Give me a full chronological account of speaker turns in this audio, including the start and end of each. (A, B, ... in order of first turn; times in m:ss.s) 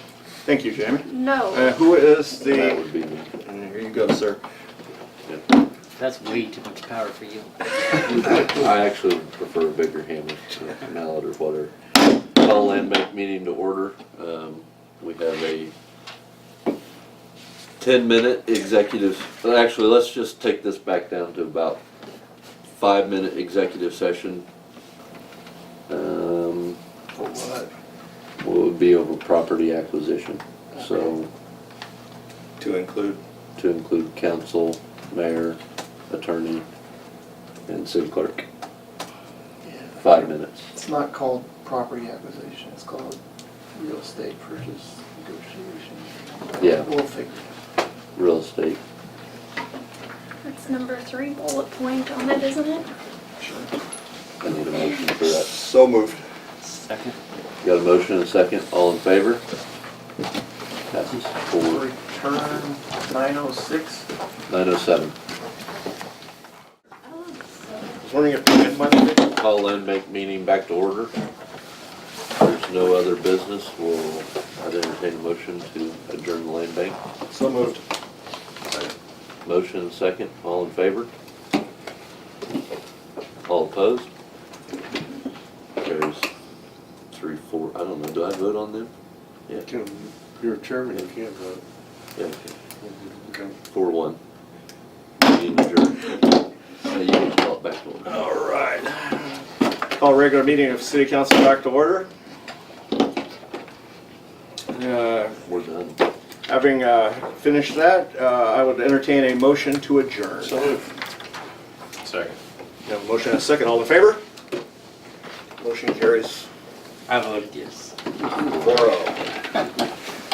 0:00.4-0:02.8 A
0:01.1-0:01.8 B
0:02.4-0:03.3 C
0:03.4-0:04.4 A
0:06.0-0:07.5 D
0:08.0-0:15.7 C
0:17.8-0:21.8 C
0:22.8-0:24.4 C
0:25.9-0:26.8 C
0:27.2-0:27.7 E
0:28.4-0:31.3 C
0:32.6-0:33.2 A
0:33.6-0:35.6 C
0:36.1-0:36.6 C
0:37.7-0:38.4 C
0:39.6-0:43.2 E
0:40.0-0:40.7 C
0:43.7-0:47.5 E
0:46.6-0:46.9 C
0:48.2-0:48.8 C
0:50.4-0:52.8 B
0:53.4-0:53.7 E
0:54.4-0:55.5 C
0:55.2-0:56.2 A
0:56.6-0:57.2 D
0:57.6-0:59.4 C
1:00.9-1:01.8 C
1:01.7-1:04.0 E
1:04.5-1:05.2 C
1:08.0-1:09.3 A
1:09.3-1:11.1 C
1:12.3-1:17.0 C
1:17.3-1:17.8 A
1:19.4-1:21.1 C
1:23.4-1:24.1 C
1:25.8-1:26.3 C
1:27.1-1:28.9 C
1:29.6-1:31.6 F
1:32.2-1:32.5 C
1:32.8-1:33.5 F
1:33.7-1:34.2 C
1:35.2-1:36.2 C
1:36.8-1:38.2 C
1:38.0-1:39.4 A
1:40.0-1:42.1 A
1:44.7-1:45.3 A
1:45.2-1:46.0 C
1:46.5-1:50.6 A
1:50.4-1:50.8 C
1:52.8-1:54.2 A
1:55.6-1:56.5 A
1:57.1-1:57.9 D
1:58.3-1:58.9 C
1:58.5-1:59.2 A